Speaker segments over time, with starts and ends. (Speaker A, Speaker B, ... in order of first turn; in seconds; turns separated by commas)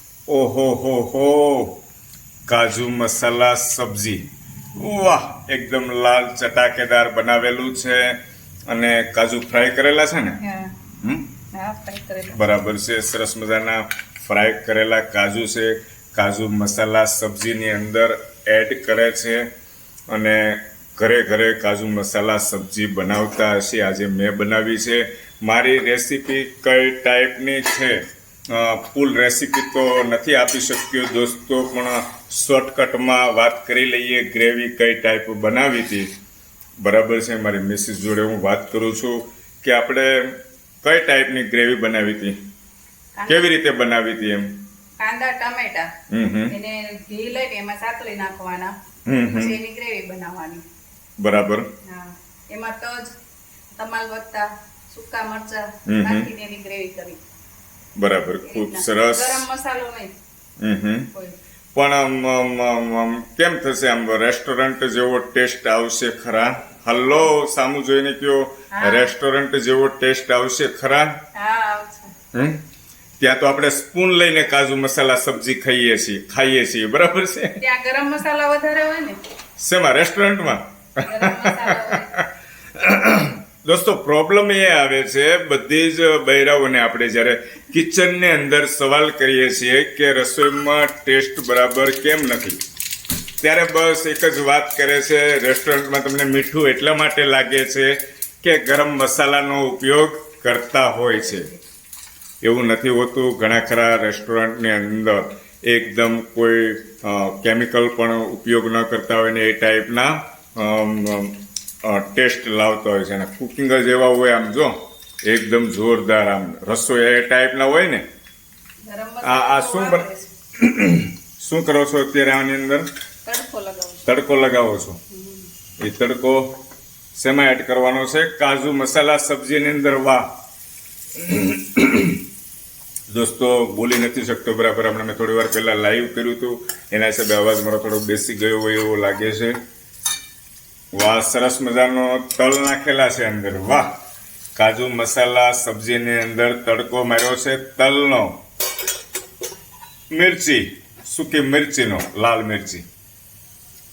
Speaker A: 0.3-1.8, Speaker A: 2.5-8.2, Speaker A: 8.7-10.4, Speaker B: 10.4-10.8, Speaker A: 11.0-11.3, Speaker B: 11.5-12.4, Speaker A: 12.3-19.5, Speaker A: 20.1-36.1, Speaker A: 36.8-42.4, Speaker B: 43.1-43.5, Speaker A: 43.3-44.5, Speaker B: 45.0-45.9, Speaker A: 46.1-46.5, Speaker B: 46.5-48.7, Speaker A: 49.1-49.6, Speaker B: 49.3-50.6, Speaker A: 51.2-51.7, Speaker B: 51.8-53.1, Speaker B: 53.7-57.2, Speaker A: 55.9-56.3, Speaker A: 58.0-59.4, Speaker B: 58.4-60.1, Speaker A: 60.6-61.1, Speaker A: 61.7-71.2, Speaker B: 68.7-69.1, Speaker B: 71.3-72.1, Speaker A: 72.3-72.6, Speaker A: 73.2-77.6, Speaker B: 77.6-79.2, Speaker A: 79.6-92.6, Speaker B: 81.0-82.1, Speaker A: 93.4-101.5, Speaker A: 102.4-118.0, Speaker B: 118.8-120.3, Speaker A: 119.2-120.0, Speaker A: 120.6-122.9, Speaker B: 123.2-124.1, Speaker A: 124.0-125.0, Speaker B: 125.1-125.5, Speaker A: 125.8-126.5, Speaker A: 127.1-130.3, Speaker A: 131.2-132.2, Speaker A: 133.1-139.6, Speaker A: 140.9-144.0, Speaker A: 144.6-148.4, Speaker A: 150.1-152.9